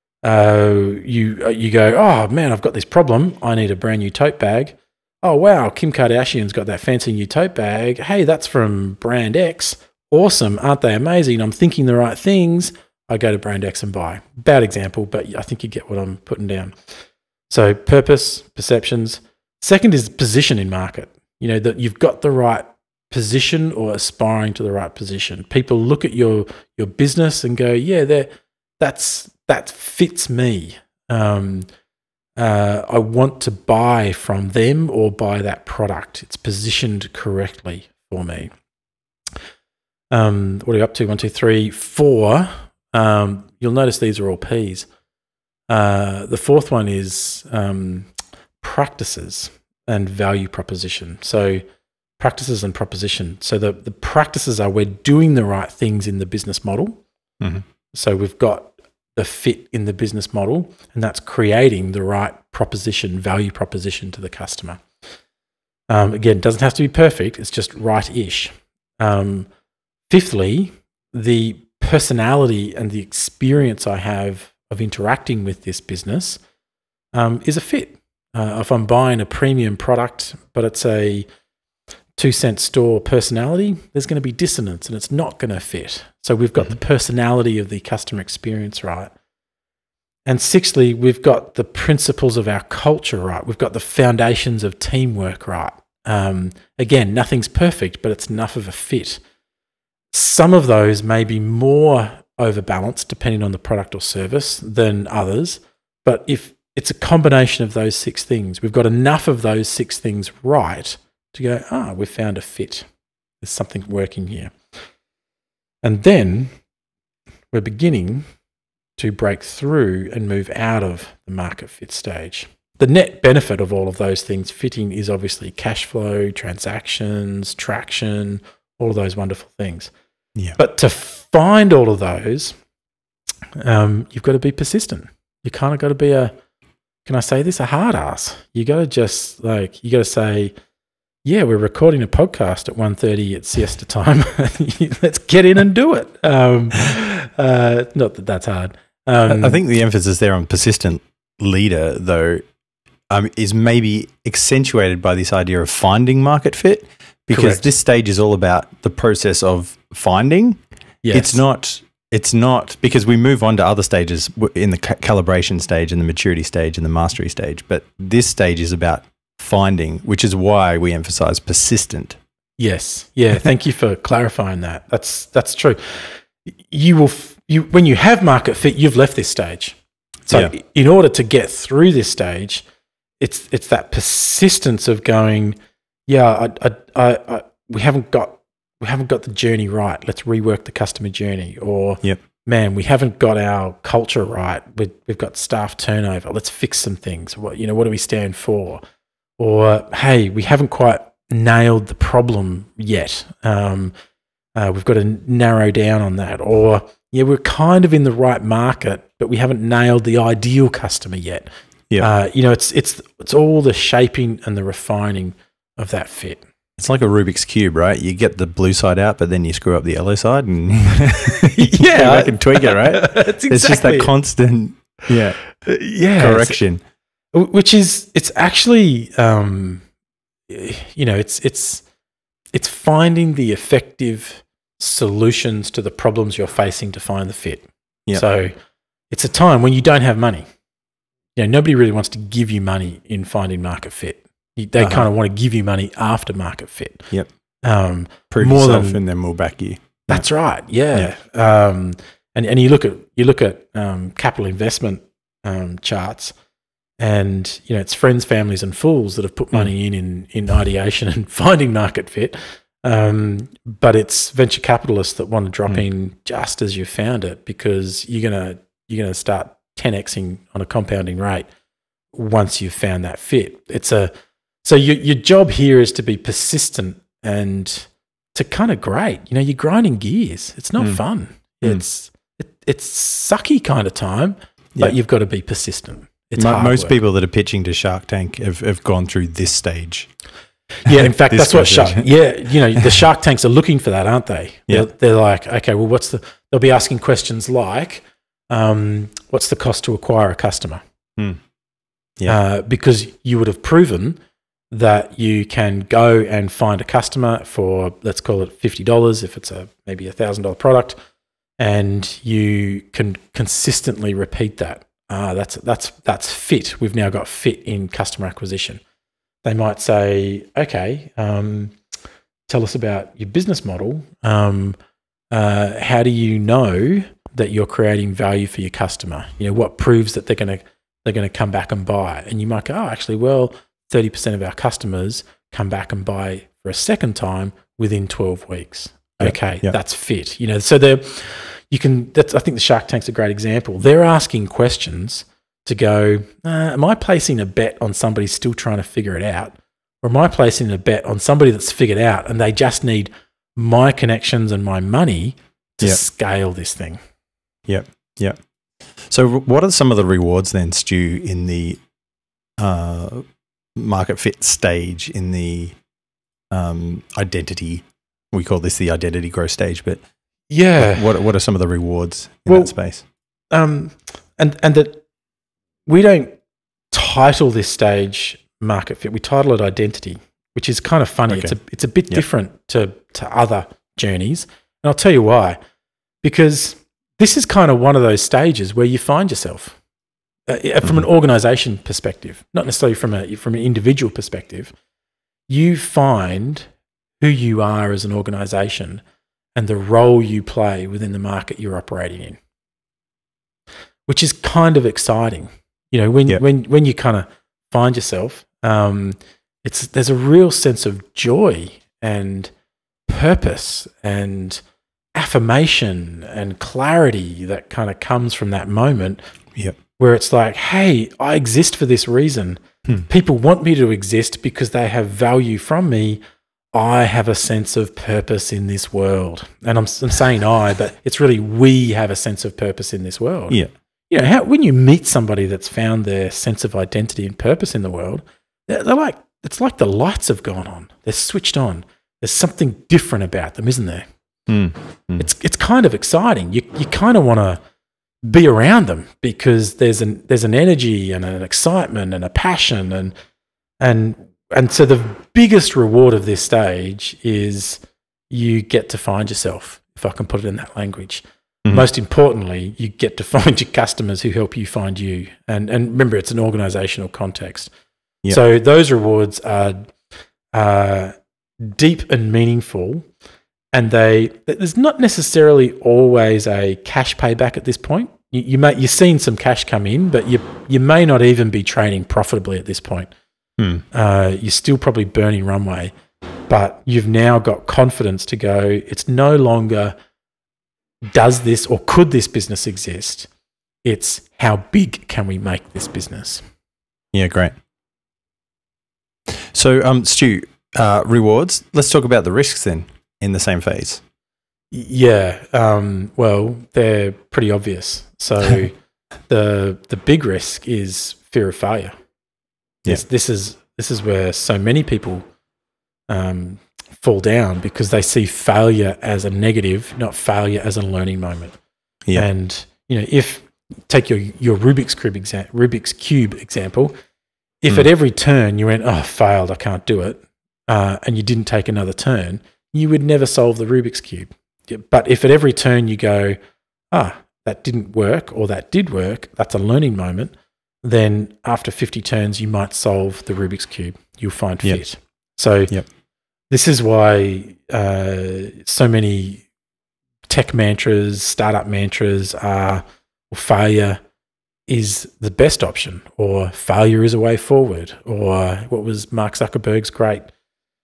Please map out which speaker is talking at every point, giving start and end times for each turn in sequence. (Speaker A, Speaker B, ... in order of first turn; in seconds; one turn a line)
Speaker A: 0.2-16.8
Speaker A: 17.5-31.7
Speaker A: 32.4-38.5
Speaker A: 40.1-44.9
Speaker A: 45.7-51.6
Speaker A: 52.2-57.0
Speaker B: 57.4-57.6
Speaker A: 57.9-64.8
Speaker A: 65.9-69.5
Speaker A: 70.1-76.4
Speaker A: 77.1-81.2
Speaker A: 82.2-89.1
Speaker A: 90.2-99.2
Speaker A: 100.1-112.8
Speaker A: 113.4-114.5
Speaker A: 115.8-116.5
Speaker A: 117.5-118.2
Speaker A: 119.0-129.9
Speaker A: 130.6-132.5
Speaker A: 133.6-136.3
Speaker A: 137.0-140.5
Speaker A: 141.2-149.6
Speaker B: 149.2-152.4
Speaker B: 153.1-160.6
Speaker A: 157.3-157.6
Speaker A: 161.0-161.4
Speaker B: 161.1-172.2
Speaker A: 172.6-182.6
Speaker A: 183.2-198.8
Speaker A: 199.4-203.9
Speaker A: 204.6-216.4
Speaker B: 216.8-225.4
Speaker A: 221.2-224.1
Speaker A: 225.5-226.6
Speaker B: 226.2-226.8
Speaker A: 227.3-229.8
Speaker A: 230.5-231.8
Speaker A: 232.5-238.5
Speaker A: 239.1-240.4
Speaker A: 241.3-247.1
Speaker B: 244.8-245.1
Speaker A: 247.6-249.0
Speaker B: 248.3-250.2
Speaker A: 250.1-256.3
Speaker A: 257.0-271.5
Speaker A: 272.1-274.1
Speaker A: 274.6-287.0
Speaker B: 286.4-290.1
Speaker A: 290.8-300.8
Speaker B: 290.9-292.1
Speaker A: 302.2-304.2
Speaker A: 304.7-310.9
Speaker A: 311.6-318.8
Speaker A: 319.4-321.7
Speaker A: 322.5-324.8
Speaker A: 325.3-357.0
Speaker B: 339.2-339.7
Speaker B: 357.7-358.4
Speaker B: 359.1-361.8
Speaker B: 362.6-365.8
Speaker B: 366.5-370.0
Speaker A: 370.5-371.1
Speaker B: 370.8-373.0
Speaker A: 372.5-372.8
Speaker A: 373.5-375.0
Speaker A: 375.9-376.4
Speaker A: 376.9-385.6
Speaker B: 381.3-381.6
Speaker A: 386.2-389.8
Speaker A: 390.5-394.7
Speaker A: 395.5-396.7
Speaker A: 397.2-399.0
Speaker A: 399.6-402.4
Speaker A: 404.1-412.5
Speaker A: 413.1-414.6
Speaker A: 415.1-419.2
Speaker A: 420.0-426.2
Speaker A: 426.7-444.0
Speaker B: 444.5-445.3
Speaker A: 445.2-447.6
Speaker A: 448.2-453.1
Speaker A: 453.8-467.7
Speaker A: 468.3-469.9
Speaker A: 470.5-473.1
Speaker A: 473.7-483.1
Speaker A: 483.9-485.9
Speaker A: 486.5-489.9
Speaker A: 491.1-493.3
Speaker A: 493.8-496.4
Speaker B: 497.1-497.5
Speaker B: 499.3-504.0
Speaker A: 504.7-508.8
Speaker A: 509.3-511.9
Speaker A: 512.8-515.2
Speaker A: 516.1-521.5
Speaker A: 522.1-526.9
Speaker A: 527.6-536.4
Speaker A: 536.9-545.7
Speaker A: 546.5-549.5
Speaker A: 550.3-554.0
Speaker A: 554.7-560.3